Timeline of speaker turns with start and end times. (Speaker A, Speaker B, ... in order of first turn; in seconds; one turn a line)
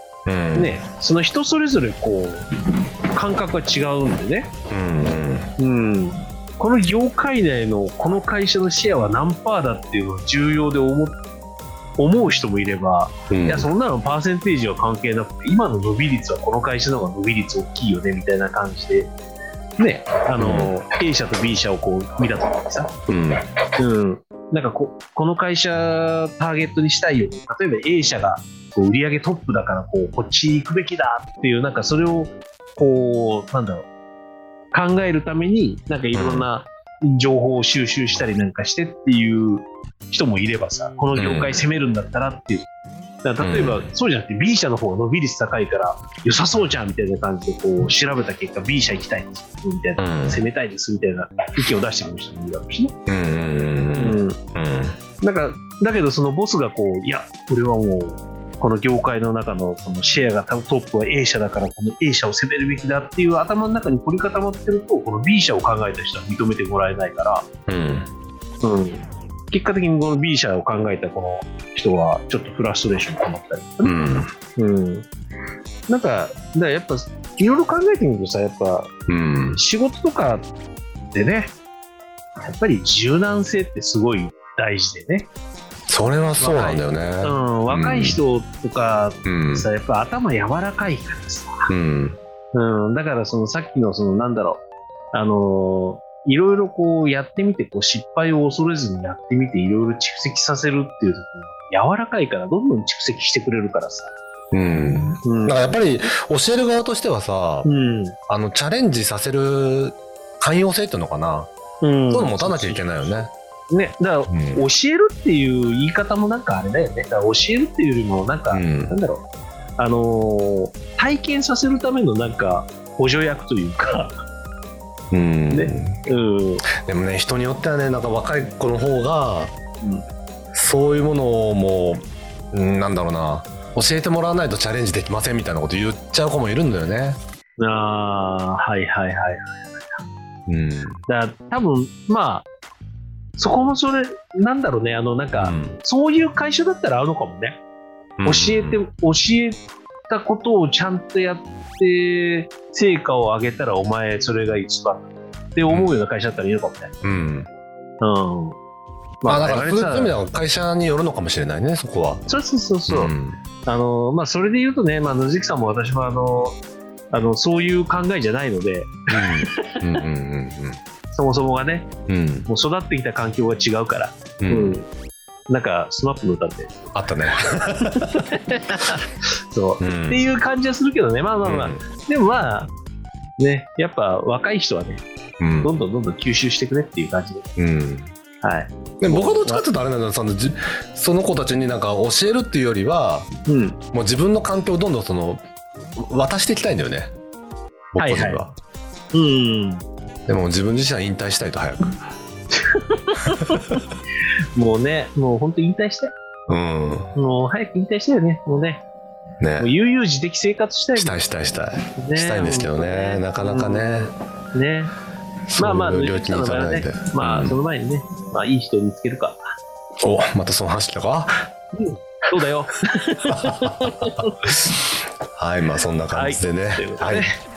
Speaker A: 0.2-0.8
Speaker B: 0.6-2.5
Speaker B: 3.1-4.5
Speaker A: 4.7-5.5
Speaker B: 5.6-11.2
Speaker B: 12.0-19.1
Speaker A: 13.3-13.7
Speaker B: 19.8-22.9
Speaker A: 20.4-20.7
Speaker A: 23.1-23.4
Speaker B: 23.8-33.9
Speaker B: 34.7-42.7
Speaker A: 36.1-36.5
Speaker A: 41.1-41.6
Speaker B: 43.2-53.0
Speaker A: 43.4-43.9
Speaker A: 50.0-50.4
Speaker A: 53.1-55.0
Speaker B: 54.0-54.4
Speaker B: 55.2-67.5
Speaker A: 67.7-68.1
Speaker B: 68.6-74.0
Speaker A: 73.8-74.3
Speaker B: 74.5-75.1
Speaker B: 75.9-78.9
Speaker A: 79.1-79.6
Speaker B: 79.5-80.5
Speaker B: 81.1-81.5
Speaker B: 82.4-85.3
Speaker A: 85.9-88.2
Speaker B: 86.4-91.7
Speaker A: 89.2-89.7
Speaker A: 91.7-92.2
Speaker B: 92.5-104.1
Speaker A: 104.5-107.7
Speaker B: 105.2-105.6
Speaker B: 107.6-108.2
Speaker A: 108.3-111.5
Speaker B: 111.8-119.2
Speaker A: 112.1-113.3
Speaker A: 114.3-114.6
Speaker A: 118.5-119.0
Speaker B: 119.8-124.2
Speaker A: 125.1-126.0
Speaker B: 125.5-126.6
Speaker A: 126.8-129.5
Speaker A: 130.5-137.2
Speaker B: 137.6-140.0
Speaker A: 140.5-141.0
Speaker B: 141.1-142.5
Speaker B: 143.4-147.6
Speaker A: 145.4-145.8
Speaker A: 148.2-148.8
Speaker B: 148.2-156.9
Speaker A: 155.7-155.9
Speaker A: 157.0-157.5
Speaker B: 158.0-158.6
Speaker B: 159.2-160.1
Speaker A: 159.3-162.2
Speaker B: 162.3-163.1
Speaker A: 162.9-163.4
Speaker B: 163.6-166.6
Speaker B: 167.1-169.8
Speaker A: 169.1-170.8
Speaker B: 171.1-171.9
Speaker A: 172.1-172.5
Speaker B: 172.5-174.9
Speaker A: 174.4-174.8
Speaker B: 175.5-176.9
Speaker A: 176.9-178.2
Speaker B: 177.5-182.7
Speaker A: 179.8-180.2
Speaker A: 181.4-181.8
Speaker B: 183.4-185.0
Speaker A: 185.4-185.8
Speaker B: 185.6-187.5
Speaker A: 187.6-188.1
Speaker B: 188.4-189.6
Speaker A: 189.0-193.3
Speaker B: 193.5-193.8
Speaker A: 193.9-195.4
Speaker A: 195.9-197.1
Speaker A: 197.9-198.6
Speaker B: 198.0-198.4
Speaker B: 199.1-199.8
Speaker A: 200.3-202.0
Speaker B: 202.5-203.6
Speaker B: 204.6-206.1
Speaker A: 206.5-207.1
Speaker B: 207.1-208.8
Speaker A: 209.4-209.7
Speaker B: 209.6-211.1
Speaker A: 211.0-214.1
Speaker B: 212.0-214.9
Speaker A: 215.5-217.6
Speaker B: 215.6-219.4
Speaker A: 220.0-221.5
Speaker B: 221.7-224.4
Speaker A: 223.3-223.9
Speaker A: 224.5-224.7
Speaker A: 225.3-227.3
Speaker B: 226.1-227.3